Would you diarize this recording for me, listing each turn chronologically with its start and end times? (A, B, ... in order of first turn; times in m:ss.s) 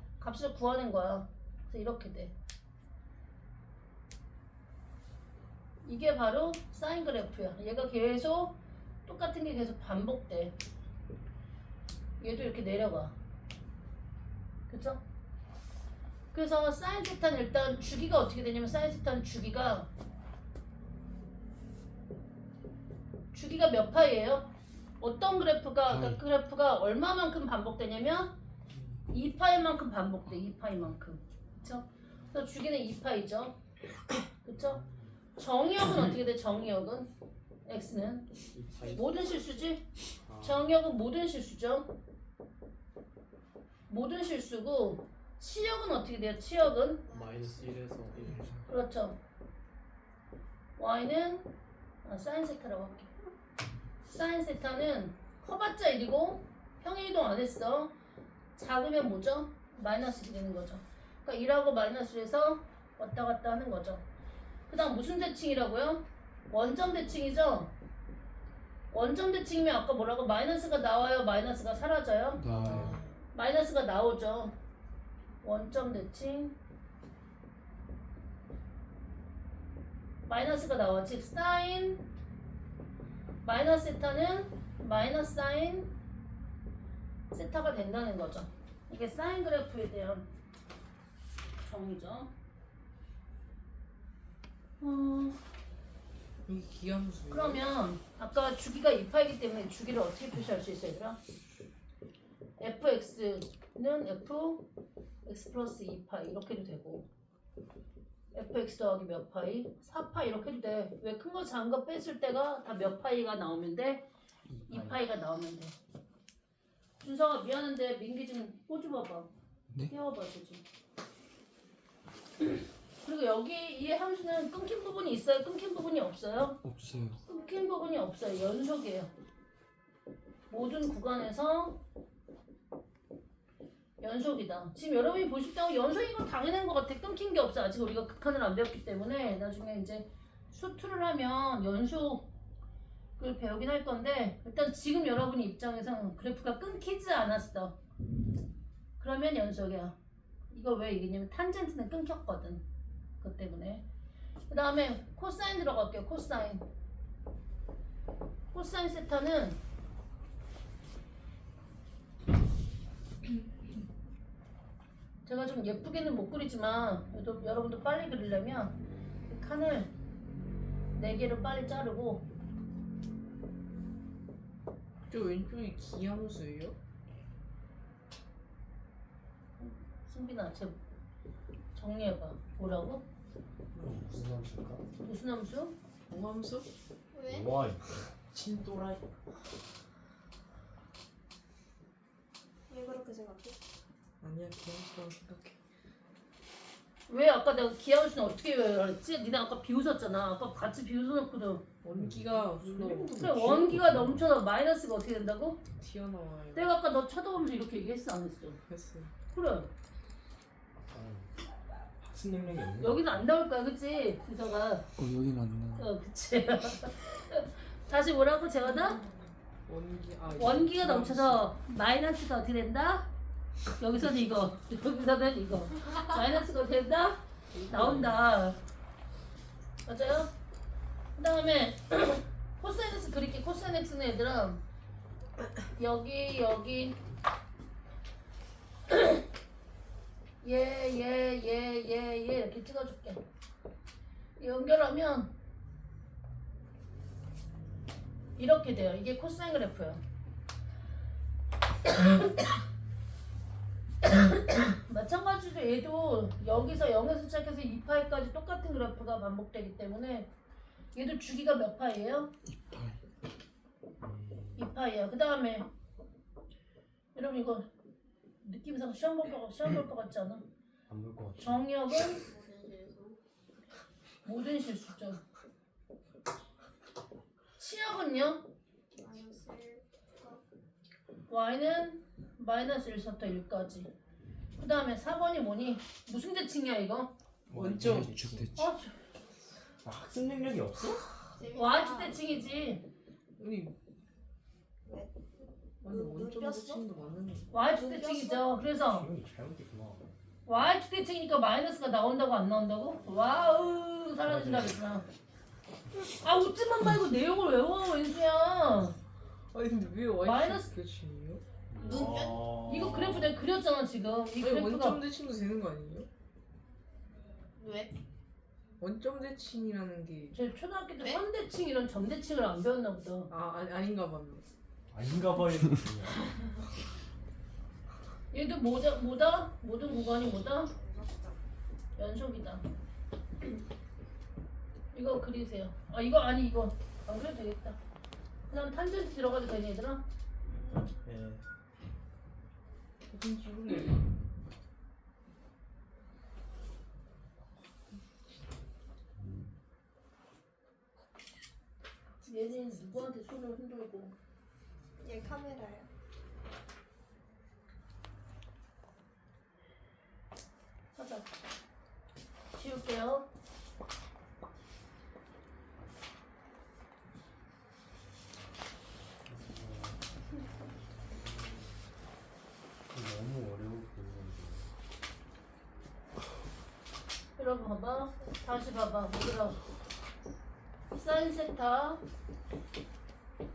0:00.2-0:02.3 A
0:05.8-0:10.6 A
0:12.2-0:13.2 A
0:14.7-0:15.0 A
0:16.3-0:19.9 A
0:23.3-0:24.5 A
0:25.0-0:28.4 A
0:25.9-0:26.2 B
0:29.1-0:33.6 A
0:34.4-0:34.8 A
0:34.5-0:35.1 C
0:35.4-0:37.1 A
0:37.7-0:38.3 A
0:38.5-0:39.1 C
0:38.7-0:39.7 D
0:38.9-0:39.8 A
0:40.2-0:40.7 C
0:40.4-0:41.9 A
0:43.9-0:47.0 A
0:47.0-0:48.4 D
0:47.1-0:48.5 C
0:48.3-0:48.6 B
0:48.7-0:49.2 A
0:50.8-0:51.5 A
0:52.0-0:53.2 A
0:54.1-0:57.9 A
0:58.6-1:04.0 A
1:04.7-1:07.7 A
1:08.9-1:12.5 A
1:12.4-1:13.0 B
1:12.6-1:13.0 C
1:13.3-1:14.6 A
1:15.4-1:16.6 A
1:20.3-1:22.0 A
1:23.4-1:25.9 A
1:27.3-1:30.3 A
1:31.6-1:32.3 A
1:34.8-1:35.4 A
1:36.5-1:37.6 E
1:37.3-1:41.2 A
1:42.6-1:44.7 A
1:45.2-1:47.1 A
1:48.3-1:54.1 A
1:54.5-1:55.0 C
1:54.7-1:55.8 A
1:57.0-1:59.3 A
1:59.9-2:00.6 A
2:03.0-2:06.6 A
2:06.6-2:07.2 B
2:07.2-2:09.1 A
2:07.3-2:07.6 D
2:10.5-2:11.8 A
2:14.0-2:22.3 A
2:23.2-2:27.8 A
2:29.0-2:30.0 A
2:30.5-2:32.6 A
2:33.2-2:33.8 A
2:34.5-2:36.6 A
2:38.5-2:39.6 A
2:45.3-2:48.8 A
2:49.3-2:49.9 A
2:51.0-2:52.3 A
2:55.1-2:56.8 E
2:59.6-3:00.8 A
3:01.7-3:03.0 A
3:03.8-3:04.8 C
3:05.0-3:05.8 A
3:06.1-3:06.7 E
3:07.1-3:07.6 D
3:07.3-3:09.1 C
3:12.7-3:13.6 D
3:14.2-3:15.6 E
3:17.1-3:21.7 A
3:21.8-3:23.2 E
3:21.9-3:24.2 C
3:22.8-3:25.6 A
3:23.5-3:24.2 B
3:25.8-3:26.8 E
3:26.6-3:28.6 A
3:28.7-3:29.1 E
3:29.3-3:29.7 A
3:30.9-3:31.3 C
3:32.0-3:33.3 C
3:32.8-3:34.9 A
3:35.0-3:35.9 B
3:35.8-3:39.0 A
3:39.7-3:41.5 E
3:40.4-3:43.1 A
3:43.8-3:48.6 A
3:47.5-3:48.2 E
3:49.9-3:50.3 A
3:51.2-3:54.6 A
3:55.7-3:57.0 A
3:58.9-3:59.2 A
4:00.4-4:03.2 A
4:04.4-4:05.3 A
4:08.4-4:10.0 A
4:11.8-4:12.5 A
4:14.0-4:20.3 A
4:20.9-4:22.3 A
4:22.5-4:23.0 B
4:24.0-4:24.7 C
4:24.6-4:25.7 A
4:27.2-4:27.7 A
4:28.4-4:30.4 A
4:30.9-4:31.6 C
4:31.4-4:32.2 A
4:32.2-4:33.2 D
4:34.2-4:35.2 A
4:37.6-4:38.4 A
4:39.0-4:40.4 D
4:41.3-4:43.9 A
4:44.6-4:47.1 A
4:47.5-4:48.5 C
4:47.5-4:48.2 E
4:47.7-4:48.7 B
4:48.6-4:48.9 A
4:49.8-4:51.1 C
4:51.4-4:52.2 D
4:51.5-4:52.8 A
4:53.4-4:53.7 E
4:54.9-4:56.8 D
4:55.8-4:57.5 E
4:57.5-4:59.1 A
4:57.5-4:58.6 D
4:58.9-5:00.1 C
5:00.5-5:05.1 A
5:04.2-5:04.8 C
5:06.0-5:09.0 A
5:09.5-5:11.4 E
5:10.2-5:10.7 A
5:11.7-5:13.4 C
5:11.8-5:12.6 D
5:12.6-5:15.0 A
5:14.4-5:16.1 E
5:17.6-5:18.0 D
5:18.8-5:20.4 E
5:20.3-5:23.3 A
5:23.3-5:24.4 E
5:24.9-5:26.3 C
5:28.3-5:30.7 A
5:30.7-5:31.4 D
5:32.0-5:32.7 A
5:34.9-5:37.8 A
5:38.5-5:40.0 A
5:40.8-5:41.4 C
5:43.1-5:44.1 E
5:52.2-5:54.2 A
5:55.0-5:55.9 D
6:01.0-6:01.3 A
6:02.5-6:03.3 A
6:09.3-6:10.0 C
6:11.1-6:11.8 C
6:12.9-6:14.7 C
6:17.4-6:19.6 A
6:20.9-6:22.0 A